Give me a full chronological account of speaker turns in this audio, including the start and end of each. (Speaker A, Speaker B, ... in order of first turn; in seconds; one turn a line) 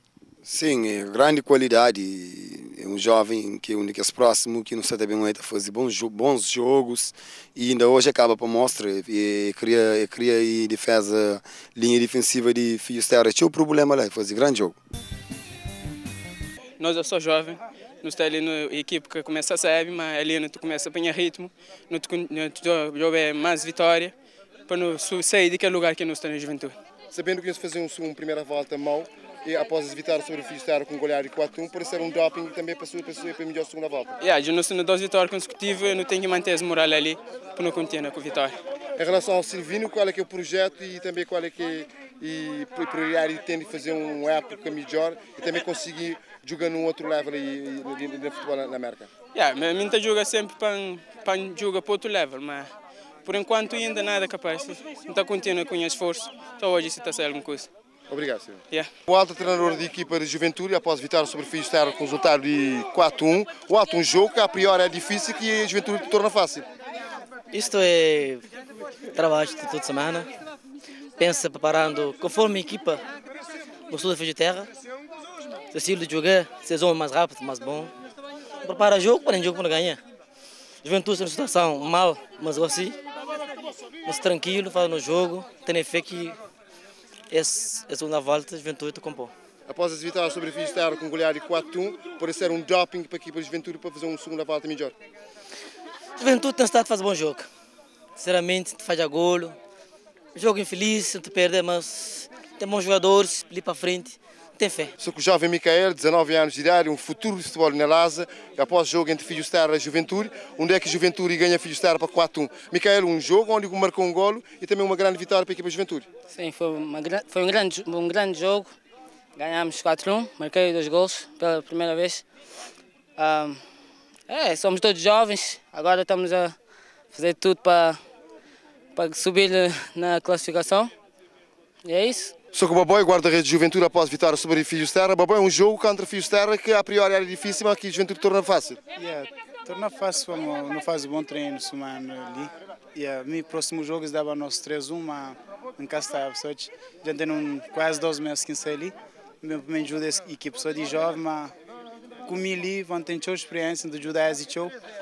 Speaker A: 0.4-14.8
Speaker B: 16.8-24.1
Speaker B: 24.7-26.8
Speaker C: 27.1-34.2
Speaker B: 34.2-38.6
Speaker C: 39.0-49.1
Speaker B: 49.3-52.7
Speaker B: 53.2-57.7
Speaker C: 58.1-66.7
Speaker D: 67.5-68.4
Speaker D: 69.1-70.3
Speaker D: 71.2-73.0
Speaker D: 73.9-74.7
Speaker D: 75.7-77.9
Speaker D: 78.6-80.0
Speaker D: 80.8-83.0
Speaker D: 84.0-86.4
Speaker D: 87.3-89.3
Speaker C: 89.7-94.9
Speaker D: 96.2-97.5
Speaker D: 98.2-99.6
Speaker D: 100.3-104.9
Speaker C: 105.0-116.0
Speaker E: 116.5-118.6
Speaker E: 119.4-122.2
Speaker E: 123.2-123.6
Speaker E: 124.3-126.5
Speaker E: 127.2-127.9
Speaker E: 129.0-130.8
Speaker E: 131.9-132.2
Speaker C: 132.5-138.8
Speaker F: 139.0-151.5
Speaker F: 152.2-154.7